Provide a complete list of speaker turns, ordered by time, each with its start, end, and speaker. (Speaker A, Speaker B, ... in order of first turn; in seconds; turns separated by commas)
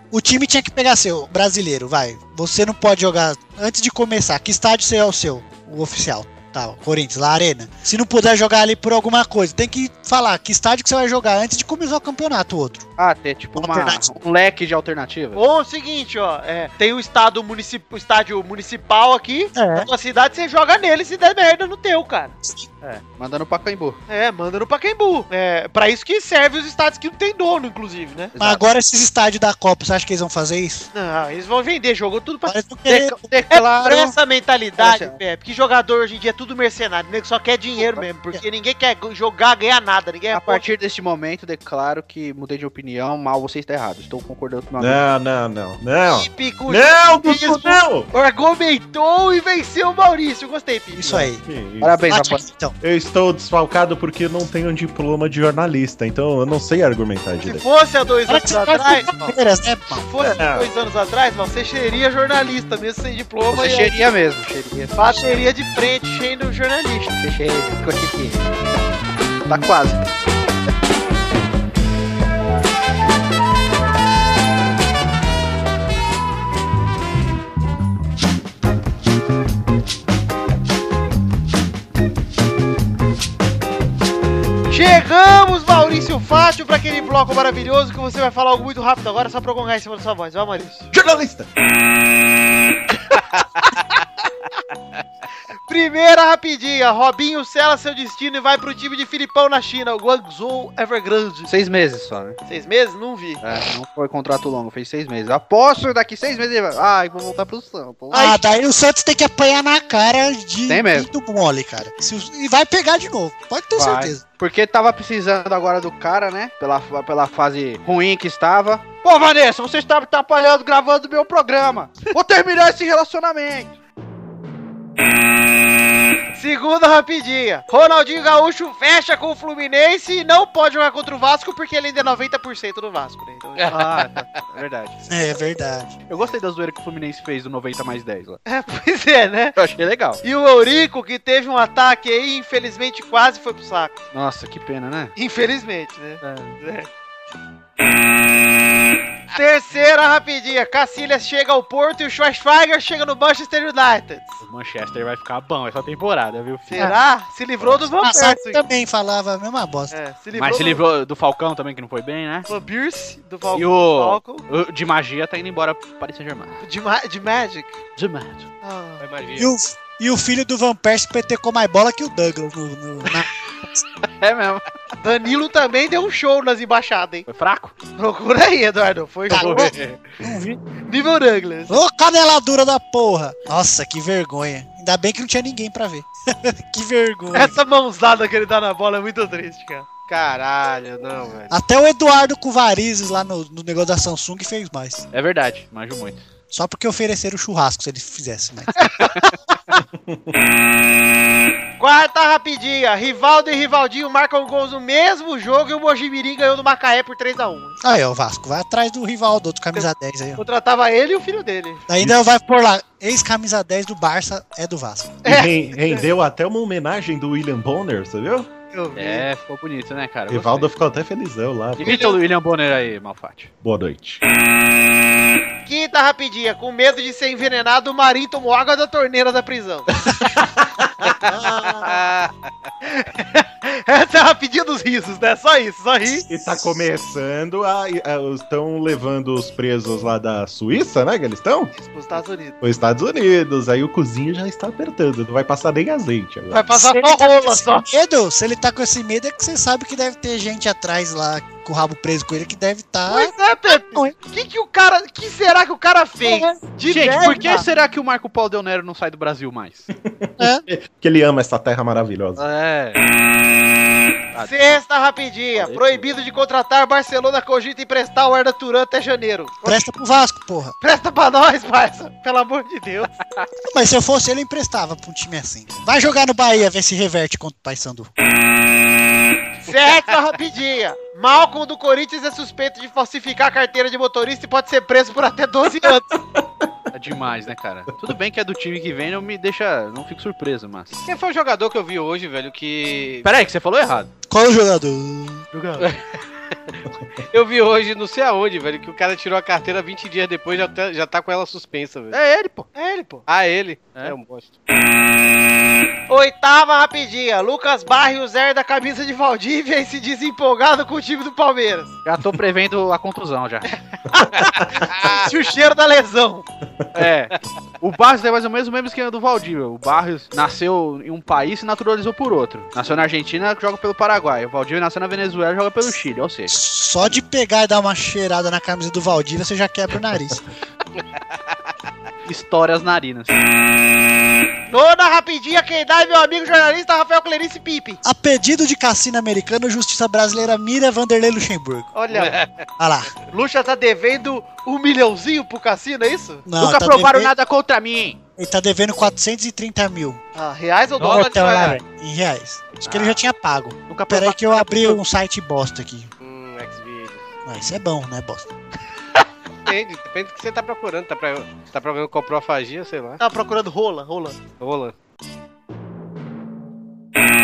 Speaker A: 0.1-12.9, Speaker B: 13.0-15.4, Speaker A: 13.6-14.0, Speaker C: 15.3-22.3, Speaker A: 19.5-19.9, Speaker B: 22.8-24.0, Speaker C: 24.1-28.3, Speaker B: 28.3-28.6, Speaker A: 28.4-30.9, Speaker C: 30.9-32.5, Speaker A: 32.5-33.2, Speaker B: 32.9-34.1, Speaker C: 33.5-40.7, Speaker B: 34.8-35.2, Speaker B: 40.3-45.0, Speaker D: 44.8-48.1, Speaker C: 46.1-51.3, Speaker A: 51.0-51.4, Speaker D: 51.4-52.1, Speaker B: 51.8-52.4, Speaker A: 52.1-52.7, Speaker D: 52.8-57.6, Speaker C: 57.4-59.3, Speaker A: 58.3-60.1, Speaker C: 59.9-64.0, Speaker D: 60.2-60.7, Speaker B: 63.5-65.2, Speaker C: 64.9-67.1, Speaker B: 67.2-68.5, Speaker B: 69.5-70.0, Speaker C: 84.7-90.9, Speaker D: 90.9-91.5, Speaker C: 95.7-101.5, Speaker B: 101.5-102.4, Speaker C: 102.5-103.4, Speaker B: 103.4-108.4, Speaker A: 108.1-114.2, Speaker B: 110.7-111.1, Speaker B: 113.7-123.7, Speaker C: 126.3-134.1, Speaker B: 133.7-135.1, Speaker A: 135.1-135.9, Speaker B: 136.1-138.4, Speaker C: 138.4-139.6, Speaker B: 139.6-140.2, Speaker C: 140.2-144.0, Speaker B: 144.1-145.1, Speaker C: 145.2-146.9, Speaker B: 146.2-146.6, Speaker C: 149.3-154.4, Speaker B: 154.4-156.9, Speaker C: 156.7-158.6, Speaker A: 158.0-159.9, Speaker C: 159.9-160.8, Speaker B: 160.3-162.5, Speaker C: 162.5-164.4, Speaker B: 163.5-166.6, Speaker C: 166.6-167.8, Speaker B: 167.9-168.5, Speaker C: 168.6-169.1, Speaker E: 169.0-169.5, Speaker A: 169.4-173.3, Speaker B: 174.2-174.7, Speaker C: 175.0-177.2, Speaker B: 177.3-177.7, Speaker C: 177.9-179.7, Speaker A: 179.3-180.6, Speaker B: 179.3-180.0, Speaker C: 180.8-181.8, Speaker A: 181.7-187.5, Speaker C: 187.3-189.9, Speaker E: 190.1-191.6, Speaker A: 191.5-195.0, Speaker B: 195.1-196.2, Speaker A: 196.5-199.0, Speaker C: 201.8-207.8, Speaker A: 207.8-210.4, Speaker C: 209.7-211.9, Speaker A: 211.9-215.2, Speaker D: 215.2-218.5, Speaker C: 215.2-216.1, Speaker C: 218.7-219.3, Speaker B: 218.9-220.7, Speaker D: 220.3-222.1, Speaker B: 221.8-223.5, Speaker C: 221.8-222.2, Speaker D: 223.6-224.2, Speaker C: 225.7-229.9, Speaker D: 230.1-231.9, Speaker E: 231.8-232.3, Speaker C: 232.8-236.2, Speaker D: 236.3-241.7, Speaker C: 241.7-242.6, Speaker D: 242.6-246.7, Speaker C: 246.5-247.8, Speaker A: 246.7-254.1, Speaker C: 253.1-257.6, Speaker A: 256.2-256.6, Speaker B: 256.9-259.9, Speaker A: 257.3-257.6, Speaker D: 260.0-262.4, Speaker A: 260.4-260.6, Speaker B: 262.4-263.0, Speaker B: 264.3-264.8, Speaker C: 264.4-269.9, Speaker B: 265.6-266.1, Speaker A: 269.6-270.7, Speaker C: 270.8-273.1, Speaker A: 273.7-278.1, Speaker C: 279.6-286.1, Speaker D: 286.3-286.6, Speaker B: 286.9-291.1, Speaker E: 291.0-293.3, Speaker B: 293.2-294.1, Speaker A: 294.3-295.4, Speaker B: 295.5-295.9, Speaker E: 297.3-302.2, Speaker B: 302.1-302.7, Speaker C: 302.7-303.2, Speaker E: 303.3-304.5, Speaker C: 306.1-311.9, Speaker B: 312.0-313.7, Speaker C: 314.1-316.4, Speaker E: 314.9-315.3, Speaker B: 316.9-326.5, Speaker A: 326.5-330.4, Speaker B: 332.2-333.4, Speaker C: 334.7-338.0, Speaker A: 338.0-341.9, Speaker C: 341.9-342.4, Speaker E: 342.1-342.6, Speaker A: 342.8-343.1, Speaker C: 343.3-346.4, Speaker A: 346.4-347.3, Speaker B: 346.6-348.2, Speaker A: 348.4-350.2, Speaker C: 350.3-351.7, Speaker E: 351.0-351.8, Speaker A: 351.0-356.1, Speaker B: 352.9-353.2, Speaker B: 353.9-355.0, Speaker E: 356.2-357.2, Speaker A: 357.4-358.5, Speaker E: 359.6-363.2, Speaker C: 363.2-364.4, Speaker E: 364.6-364.9